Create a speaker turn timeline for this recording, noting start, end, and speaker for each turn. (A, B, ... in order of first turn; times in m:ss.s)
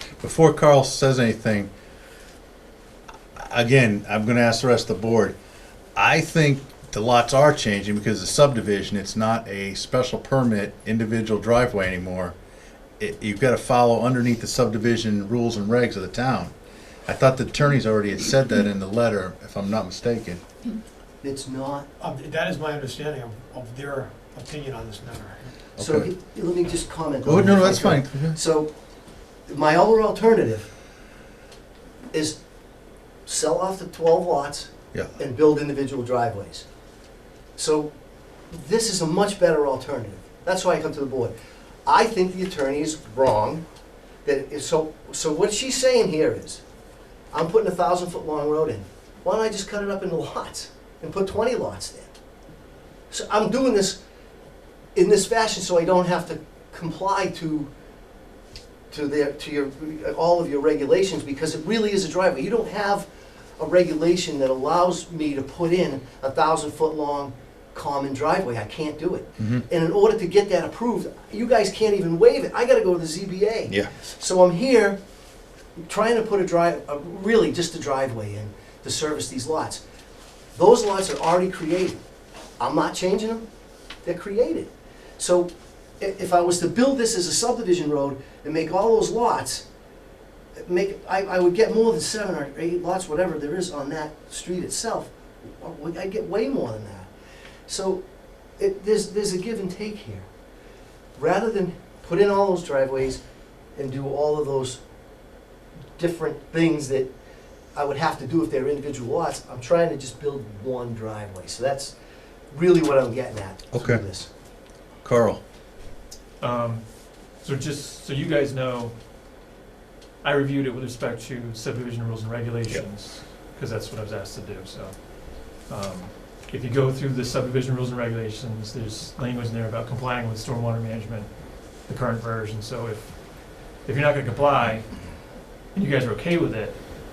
0:00.2-0:01.7 A
0:03.4-0:05.4 A
0:06.0-0:12.4 A
0:13.0-0:16.5 A
0:17.1-0:20.4 A
0:21.2-0:21.9 B
0:22.0-0:25.5 C
0:25.8-0:26.1 A
0:25.8-0:28.7 B
0:27.2-0:28.4 A
0:29.5-0:30.7 B
0:32.1-0:32.4 B
0:33.3-0:36.6 B
0:37.6-0:37.9 B
0:38.5-0:41.3 B
0:41.9-0:43.6 B
0:44.2-0:46.6 B
0:47.3-0:52.1 B
0:53.1-0:54.0 B
0:55.0-0:57.7 B
0:58.9-1:03.1 B
1:03.6-1:15.0 B
1:09.4-1:09.6 A
1:13.7-1:14.0 A
1:15.8-1:19.8 B
1:20.6-1:22.0 B
1:22.6-1:23.5 B
1:24.0-1:29.6 B
1:30.6-1:37.1 B
1:37.7-1:38.0 B
1:38.6-1:40.3 B
1:41.2-1:43.2 B
1:43.8-1:44.8 B
1:46.0-1:47.1 B
1:47.8-1:51.9 B
1:52.5-1:54.3 B
1:53.7-1:54.0 A
1:55.0-1:55.4 A
1:56.4-1:58.9 D
2:00.2-2:15.0 D
2:15.7-2:16.8 D